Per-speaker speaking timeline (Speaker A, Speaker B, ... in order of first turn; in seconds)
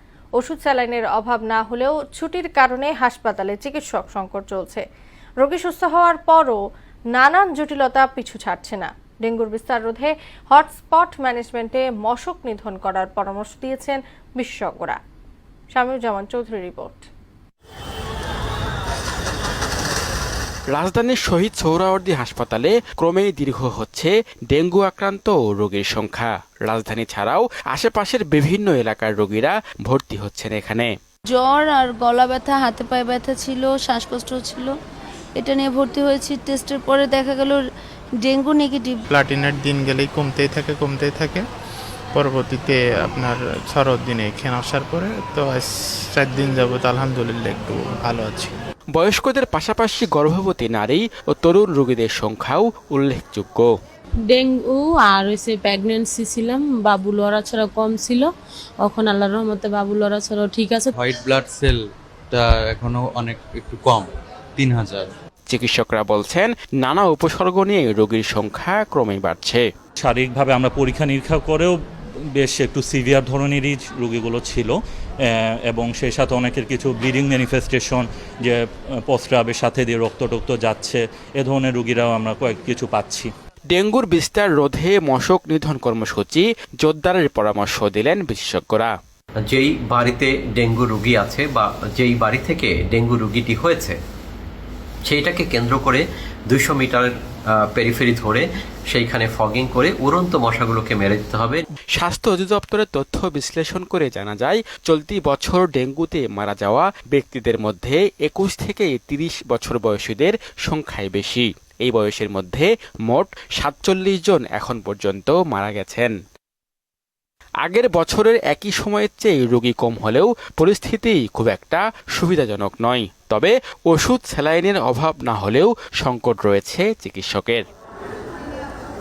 Speaker A: 0.4-4.8, 5.4-6.6, 7.1-15.0, 15.7-17.1
Speaker B: 20.7-30.9, 49.0-53.7, 65.5-69.6, 83.7-88.9, 102.0-116.1, 117.6-127.7
Speaker C: 31.3-34.8, 35.4-37.6, 38.2-39.0
Speaker D: 39.1-41.4, 42.1-48.5
Speaker E: 54.3-58.3, 58.8-60.9
Speaker F: 61.0-65.1
Speaker G: 70.0-71.8, 72.4-74.7, 75.3-78.6, 79.1-83.3
Speaker H: 89.4-94.0, 95.1-101.6